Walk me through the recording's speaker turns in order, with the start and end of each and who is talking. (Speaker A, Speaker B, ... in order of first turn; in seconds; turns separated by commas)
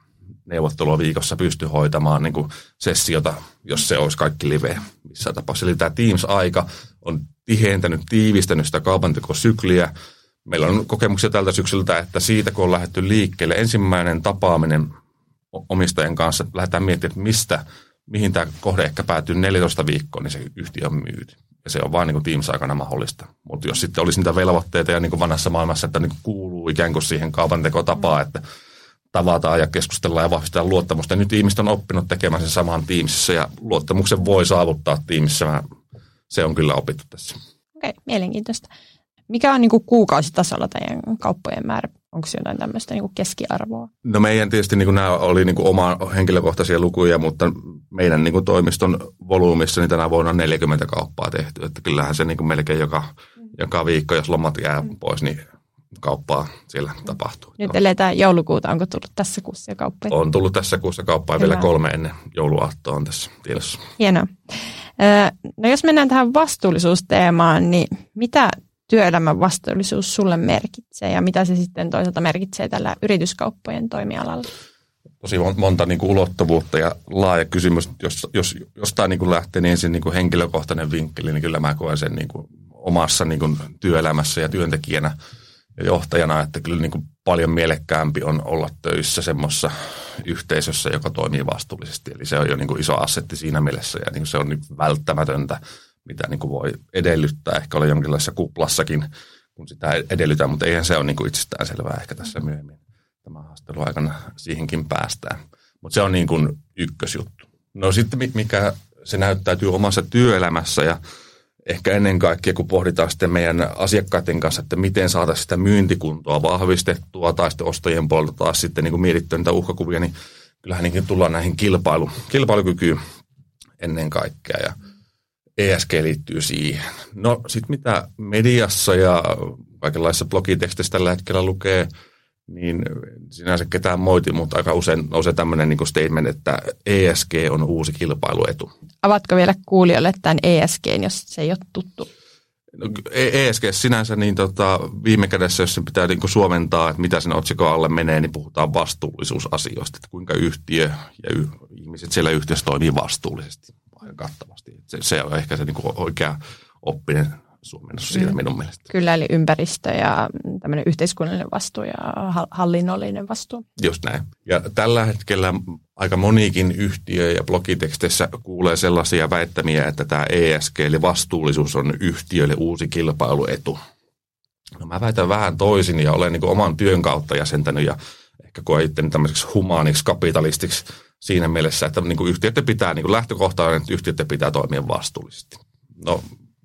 Speaker A: 0.5-9.9, Speaker A: 10.5-14.9, Speaker A: 15.5-28.4, Speaker A: 29.1-35.6, Speaker A: 36.3-37.4, Speaker B: 37.8-38.7, Speaker B: 39.3-43.9, Speaker A: 44.0-55.4, Speaker A: 56.0-57.8, Speaker B: 57.6-60.2, Speaker A: 60.1-63.9, Speaker B: 61.4-61.7, Speaker B: 64.0-64.3, Speaker B: 65.0-74.5, Speaker A: 75.2-85.1, Speaker A: 85.8-111.0, Speaker A: 111.7-123.0, Speaker A: 123.8-124.8, Speaker A: 125.6-131.9, Speaker A: 132.5-138.7, Speaker B: 139.0-142.1, Speaker A: 142.8-158.9, Speaker B: 158.9-163.7, Speaker A: 163.8-173.8, Speaker A: 174.8-186.3